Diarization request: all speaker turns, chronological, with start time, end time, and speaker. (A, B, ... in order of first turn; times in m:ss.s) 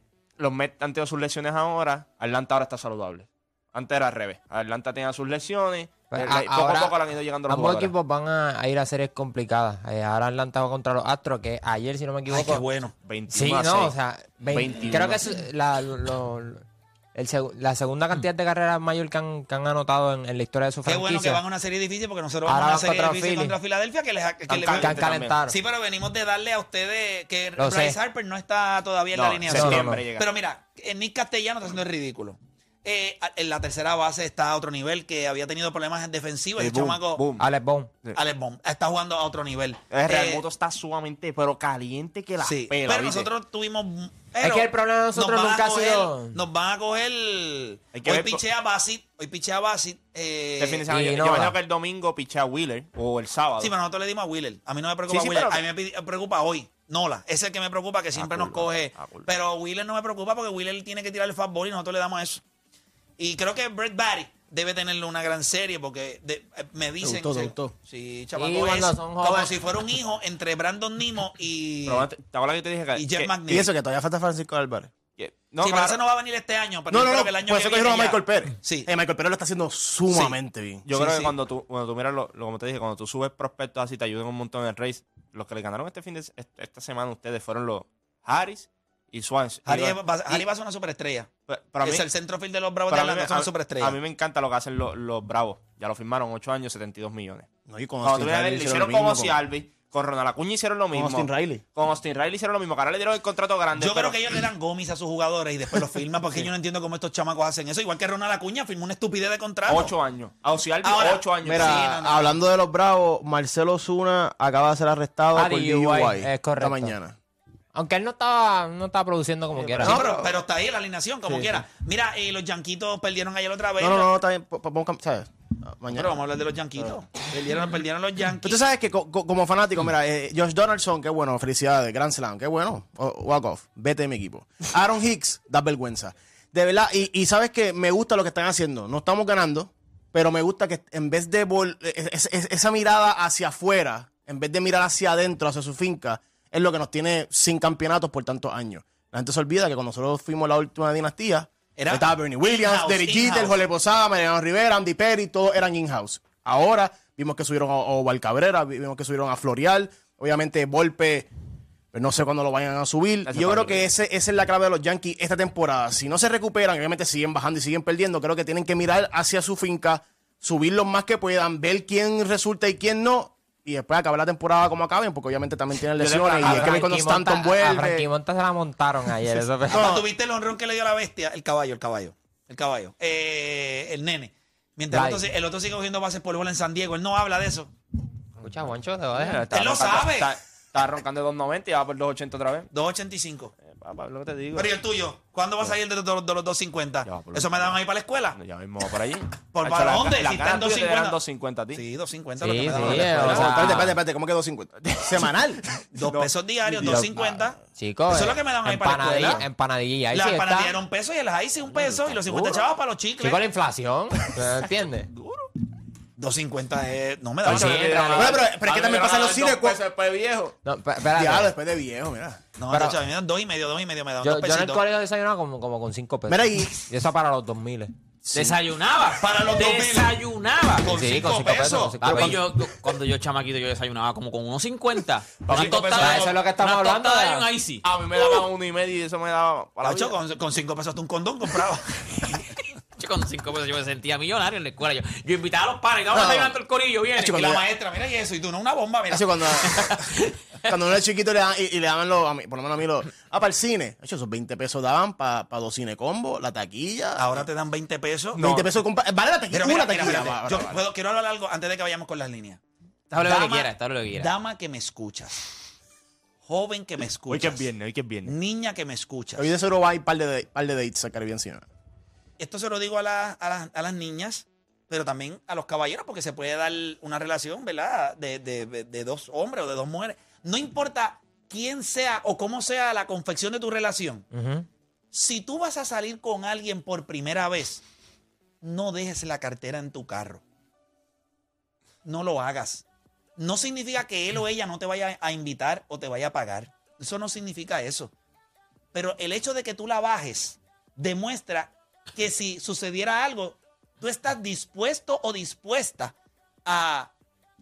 0:00.4-0:07.9 A
0:06.1-0:12.6 B
0:12.3-0:13.0 C
0:13.0-0:14.0 A
0:13.3-0:16.6 B
0:14.5-0:15.2 A
0:17.2-0:21.4 B
0:20.8-0:37.2 C
0:22.5-0:23.6 B
0:24.5-0:25.4 A
0:24.6-0:25.6 B
0:27.6-0:28.0 B
0:29.1-0:30.3 A
0:29.5-0:30.0 B
0:36.6-0:37.5 A
0:37.4-0:37.9 B
0:38.2-0:40.4 C
0:39.9-0:43.3 A
0:42.4-0:50.9 C
0:44.4-0:46.4 B
0:47.9-0:48.4 A
0:50.6-0:53.7 A
0:50.9-0:51.6 B
0:53.6-1:02.4 C
0:55.1-0:55.6 A
0:58.1-0:59.3 A
1:03.2-1:12.1 C
1:07.0-1:07.7 D
1:08.4-1:09.6 B
1:11.9-1:13.4 A
1:12.9-1:13.7 C
1:13.5-1:14.9 D
1:15.2-1:16.0 A
1:15.6-1:18.9 C
1:16.9-1:20.8 D
1:20.1-1:20.4 C
1:20.8-1:30.4 A
1:20.9-1:21.3 C
1:29.7-1:34.0 C
1:31.5-1:32.0 A
1:32.9-1:37.5 A
1:37.7-1:39.4 D
1:38.0-1:44.4 A
1:40.9-1:41.6 D
1:43.8-1:50.0 C
1:49.7-1:51.8 A
1:50.8-1:52.4 C
1:51.4-1:57.2 D
1:55.4-1:57.0 B
1:57.7-2:00.0 B
1:59.6-2:00.4 D
1:59.8-2:04.1 C
2:03.8-2:06.2 D
2:05.9-2:08.6 C
2:08.4-2:41.3 D
2:31.8-2:33.6 C
2:41.9-2:58.1 D
2:43.2-2:43.9 A
2:56.0-2:56.8 A
2:56.4-3:00.0 B
2:59.7-3:07.7 C
2:59.7-3:00.0 D
3:04.9-3:05.2 B
3:08.4-3:12.7 A
3:08.4-3:09.5 B
3:09.5-3:10.3 C
3:12.7-3:13.5 C
3:13.6-3:14.7 A
3:14.5-3:18.4 C
3:17.0-3:17.8 A
3:18.4-3:21.8 A
3:19.5-3:21.2 C
3:21.7-3:23.8 C
3:22.4-3:24.0 B
3:22.6-3:23.7 A
3:23.0-3:25.6 D
3:25.9-3:27.6 C
3:26.1-3:27.5 A
3:27.8-3:30.8 B
3:28.1-3:29.5 C
3:30.1-3:33.4 C
3:33.2-3:35.1 B
3:36.2-3:38.1 C
3:37.4-3:40.6 A
3:37.4-3:38.4 B
3:38.2-3:39.8 D
3:40.6-3:41.5 B
3:41.2-3:42.4 D
3:42.6-3:44.8 C
3:42.7-3:43.0 B
3:44.2-3:47.9 B
3:46.3-3:46.7 D
3:48.3-3:50.9 E
3:49.2-3:50.2 C
3:50.8-3:52.3 C
3:50.9-3:52.4 B
3:52.0-3:57.8 E
3:55.5-3:56.4 C
3:55.5-3:55.8 A
3:56.0-3:57.5 B
3:57.8-4:00.2 A
3:59.8-4:02.4 C
4:03.0-4:07.4 E
4:06.1-4:06.6 D
4:07.2-4:07.6 D
4:07.2-4:09.2 C
4:09.1-4:10.0 D
4:10.7-4:17.5 D
4:17.2-4:18.4 C
4:18.4-4:18.8 A
4:18.4-4:20.8 D
4:19.5-4:22.6 C
4:23.1-4:24.3 E
4:23.1-4:25.5 C
4:26.4-4:27.7 C
4:27.3-4:28.4 A
4:28.2-4:29.5 C
4:29.4-4:31.6 D
4:32.4-4:44.3 C
4:44.3-4:44.7 B
4:45.1-4:47.8 C
4:48.6-4:50.4 C
4:52.0-4:52.8 C
4:53.4-4:58.1 C
4:58.9-5:06.2 C
5:06.7-5:07.1 C